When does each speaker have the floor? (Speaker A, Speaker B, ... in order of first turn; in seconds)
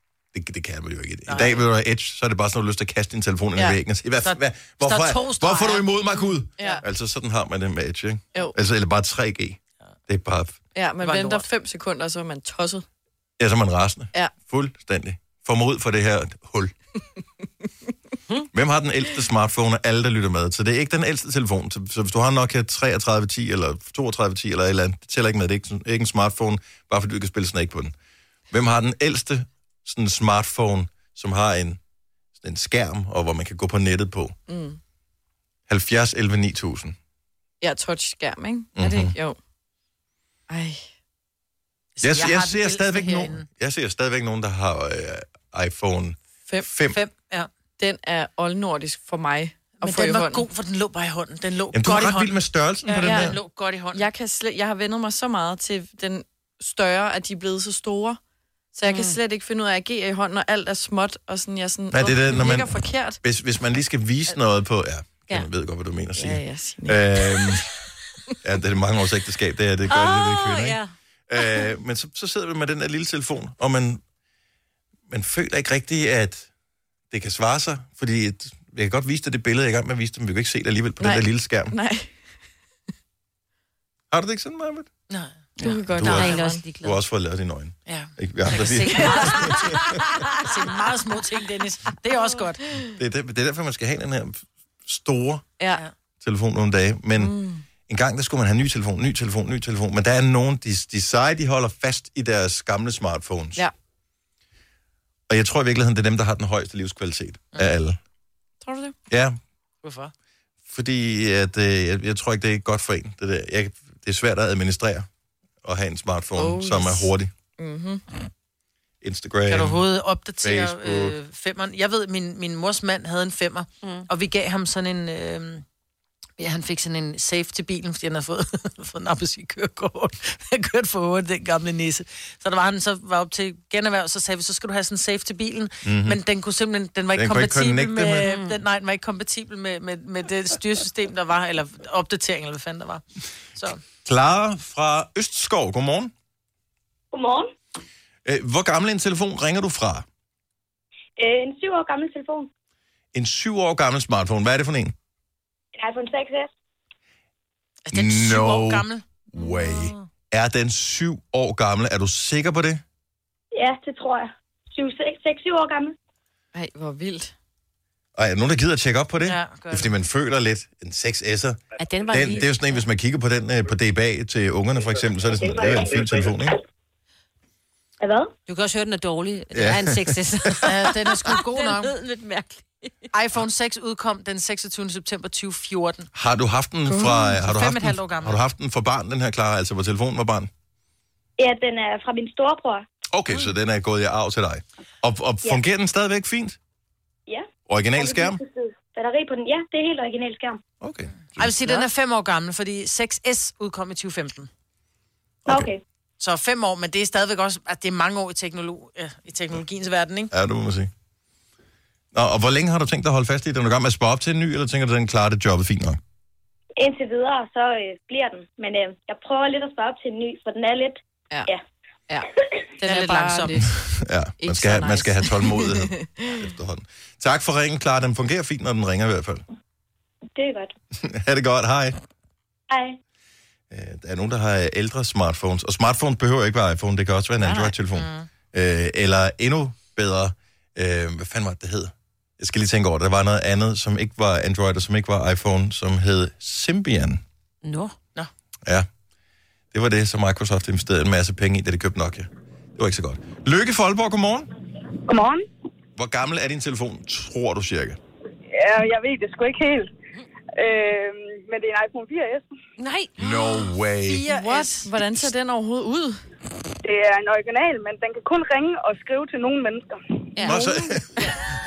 Speaker A: 0.3-10.6, 13.4-16.7, 18.5-27.9, 28.5-31.8, 32.4-34.3, 35.7-37.0, 38.8-39.1, 42.0-47.0, 51.7-53.4, 61.9-67.6, 68.4-74.0, 75.1-76.5, 77.1-81.7, 84.1-84.9, 85.9-90.0, 92.9-95.5, 96.2-97.3, 97.9-103.7, 105.3-108.0, 109.1-109.4, 110.7-115.1, 115.6-117.3, 119.0-119.8, 120.4-121.2, 135.8-136.2, 137.1-138.3, 144.0-146.1, 148.2-150.1, 153.1-154.9, 157.9-162.8, 168.2-176.6, 179.5-180.7, 186.1-190.5, 193.1-196.6, 197.7-198.4, 200.8-201.8, 205.4-205.7, 210.3-210.9, 212.1-216.0, 223.8-229.4, 231.0-232.0, 233.7-247.2, 249.7-254.5, 255.9-258.0, 263.2-264.2, 270.4-271.3
Speaker B: 1.3-1.6, 4.2-6.0, 11.0-11.5, 42.0-43.5, 46.9-47.5, 49.8-52.3, 52.9-54.0, 85.1-85.4, 87.9-92.8, 109.8-110.1, 119.5-125.6, 126.4-143.0, 143.6-143.8, 157.8-159.0, 169.2-169.9, 180.6-181.9, 183.1-186.1, 187.3-188.4, 201.4-204.5, 206.2-210.3, 222.8-223.6, 237.9-238.3, 264.1-264.9
Speaker C: 6.6-6.8, 10.7-12.8, 34.5-34.8, 37.6-39.4, 40.5-40.8, 47.8-50.5, 52.9-53.4, 53.9-58.2, 58.7-63.2, 66.2-67.6, 81.0-82.1, 85.6-86.6, 97.2-97.6, 108.6-108.9, 116.3-118.0, 166.5-167.3, 186.9-187.2, 222.1-223.8, 224.4-226.4, 264.3-266.2
Speaker D: 58.9-59.2, 69.9-70.9, 85.6-87.0, 123.8-124.1, 138.2-138.6, 171.8-172.6, 178.5-182.9, 247.6-247.9, 262.8-263.6, 270.4-271.3
Speaker E: 147.1-147.5, 151.2-152.5, 155.8-156.5, 163.5-165.9, 178.0-178.3, 191.4-192.8, 198.0-200.6, 205.5-205.8, 216.8-221.6, 230.4-230.7
Speaker F: 255.1-255.4, 258.5-259.9, 260.6-262.5, 266.8-270.0